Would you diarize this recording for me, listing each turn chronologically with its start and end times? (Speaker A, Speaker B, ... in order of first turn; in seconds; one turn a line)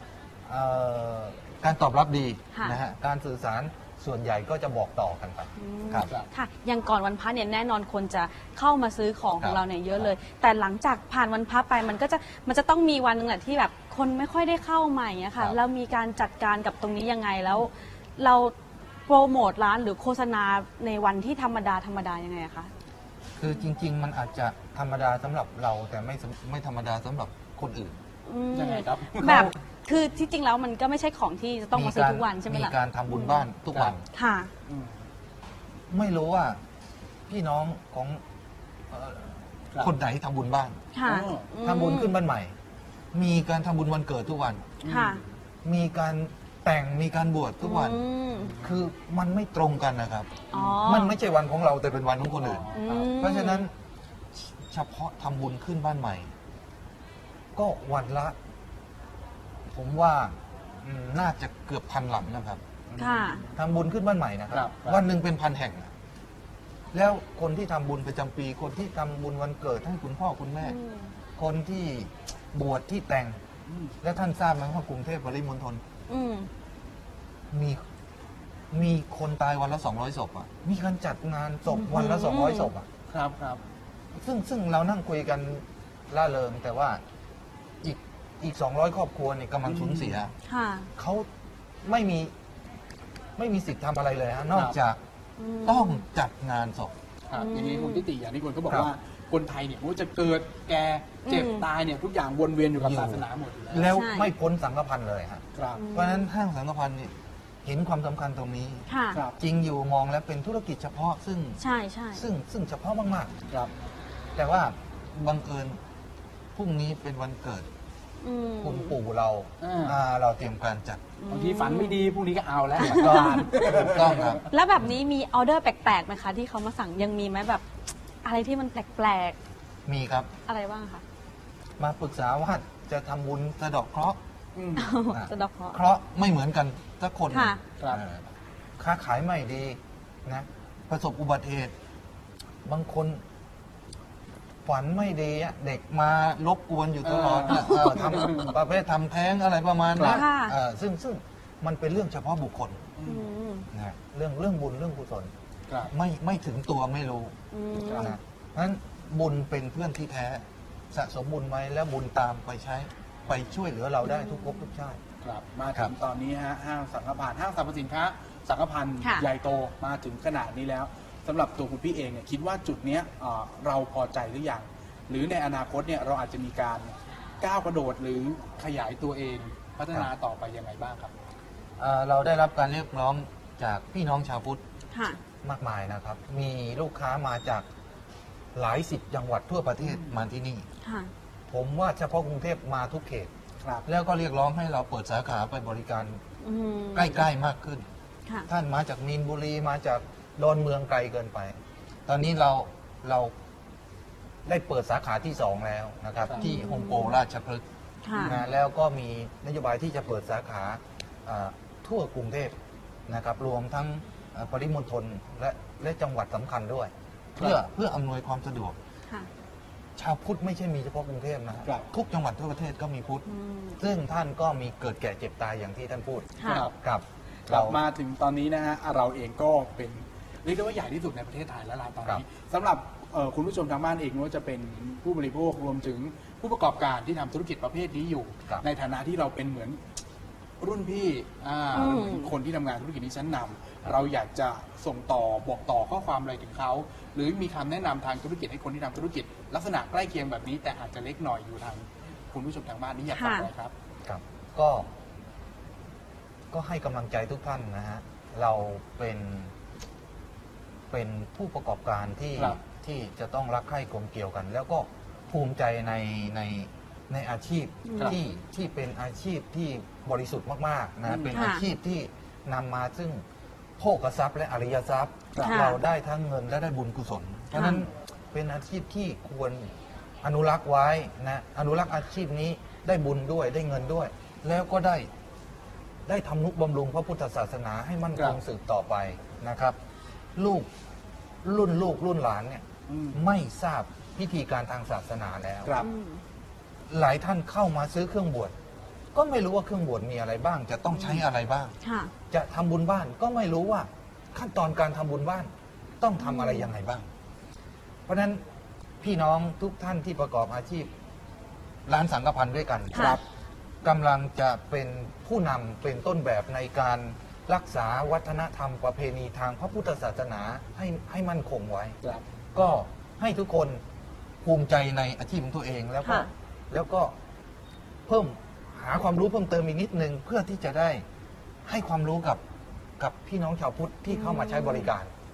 Speaker A: 0.5-6.1
Speaker B: 2.5-2.8
Speaker B: 5.6-18.5
Speaker A: 9.4-10.1
Speaker B: 19.1-22.7
Speaker A: 23.4-28.0
Speaker B: 28.2-33.4
Speaker C: 28.5-29.5
Speaker A: 29.2-29.5
Speaker A: 31.7-34.1
Speaker B: 34.1-34.5
Speaker C: 34.7-35.0
Speaker A: 35.9-36.6
Speaker A: 37.3-38.2
Speaker A: 38.9-40.8
Speaker B: 40.9-42.1
Speaker C: 41.0-41.5
Speaker A: 41.6-42.5
Speaker A: 43.1-44.7
Speaker C: 44.8-45.3
Speaker B: 44.9-45.2
Speaker A: 45.6-48.0
Speaker B: 47.6-48.6
Speaker C: 48.4-48.8
Speaker A: 48.6-53.7
Speaker B: 50.5-51.1
Speaker C: 50.5-50.9
Speaker C: 52.3-53.1
Speaker B: 52.7-53.7
Speaker A: 54.3-56.3
Speaker A: 57.5-58.4
Speaker A: 59.7-62.6
Speaker C: 62.9-63.6
Speaker B: 63.0-63.4
Speaker A: 63.5-65.9
Speaker C: 64.5-65.0
Speaker A: 66.9-70.8
Speaker B: 70.6-71.1
Speaker A: 71.4-73.4
Speaker C: 73.7-74.0
Speaker A: 74.0-75.8
Speaker B: 76.1-76.5
Speaker A: 77.5-77.8
Speaker A: 78.7-82.9
Speaker B: 81.7-82.7
Speaker C: 83.1-83.6
Speaker A: 84.2-87.0
Speaker A: 87.8-90.3
Speaker C: 89.7-90.2
Speaker B: 90.5-90.9
Speaker A: 91.0-91.3
Speaker A: 91.8-92.3
Speaker A: 93.4-95.0
Speaker B: 95.4-96.0
Speaker A: 95.6-96.9
Speaker C: 97.3-103.9
Speaker B: 97.3-98.1
Speaker B: 101.3-101.7
Speaker A: 102.8-107.1
Speaker B: 103.9-104.3
Speaker C: 105.5-105.8
Speaker B: 105.8-106.3
Speaker A: 107.6-111.6
Speaker B: 108.9-109.2
Speaker B: 111.6-112.2
Speaker A: 112.1-113.4
Speaker A: 114.4-115.8
Speaker A: 116.5-117.7
Speaker B: 118.2-119.0
Speaker A: 118.6-121.0
Speaker C: 119.6-120.0
Speaker B: 121.2-122.0
Speaker C: 121.3-124.4
Speaker A: 122.8-124.5
Speaker B: 122.9-123.5
Speaker B: 124.4-127.6
Speaker B: 128.2-129.4
Speaker A: 129.9-130.3
Speaker B: 130.5-131.0
Speaker A: 131.8-134.2
Speaker C: 134.6-134.9
Speaker B: 134.8-135.8
Speaker A: 135.1-138.3
Speaker B: 137.3-137.6
Speaker C: 137.8-138.0
Speaker A: 138.8-141.7
Speaker A: 142.7-143.2
Speaker A: 144.7-153.0
Speaker C: 147.0-148.5
Speaker B: 147.5-148.3
Speaker C: 150.0-150.2
Speaker B: 150.0-150.6
Speaker C: 153.0-153.3
Speaker B: 153.1-153.7
Speaker A: 153.7-155.3
Speaker A: 155.9-157.4
Speaker B: 157.5-158.2
Speaker C: 157.8-158.2
Speaker A: 157.9-165.0
Speaker B: 164.1-164.6
Speaker C: 165.2-181.1
Speaker B: 169.0-169.3
Speaker A: 181.8-184.6
Speaker B: 184.9-185.2
Speaker A: 185.4-187.7
Speaker A: 188.5-190.7
Speaker C: 189.8-190.2
Speaker B: 190.8-191.1
Speaker A: 191.5-193.3
Speaker A: 193.8-196.2
Speaker B: 196.4-197.2
Speaker A: 196.9-197.8
Speaker A: 198.5-203.3
Speaker A: 204.5-207.6
Speaker C: 206.3-206.5
Speaker B: 206.4-207.2
Speaker B: 208.1-208.4
Speaker C: 208.1-208.4
Speaker A: 208.3-212.6
Speaker A: 213.1-218.8
Speaker A: 220.0-223.3
Speaker B: 223.3-223.8
Speaker A: 223.8-227.8
Speaker B: 226.4-226.7
Speaker C: 226.4-226.7
Speaker C: 227.5-239.8
Speaker C: 240.6-253.7
Speaker B: 241.7-242.3
Speaker B: 253.1-253.5
Speaker A: 254.1-254.9
Speaker A: 256.5-259.5
Speaker A: 260.9-273.2
Speaker B: 267.9-268.2
Speaker C: 271.1-271.4
Speaker B: 271.3-271.6
Speaker A: 273.8-285.1
Speaker B: 275.4-275.8
Speaker B: 277.5-277.9
Speaker A: 286.1-289.8
Speaker A: 290.4-290.7
Speaker A: 291.4-295.8
Speaker C: 292.9-293.3
Speaker C: 295.6-295.9
Speaker B: 295.8-296.2
Speaker A: 296.9-298.5
Speaker A: 299.1-301.8
Speaker C: 300.9-301.3
Speaker B: 301.8-302.1
Speaker A: 302.3-307.1
Speaker B: 306.2-306.7
Speaker A: 308.1-308.4
Speaker A: 309.0-310.9
Speaker A: 311.9-313.2
Speaker B: 312.9-313.2
Speaker C: 312.9-313.2
Speaker A: 313.8-322.0
Speaker A: 322.5-323.8
Speaker A: 324.4-327.1
Speaker B: 326.0-326.3
Speaker A: 328.1-331.0
Speaker A: 331.6-332.4
Speaker A: 333.0-335.1
Speaker B: 334.1-334.9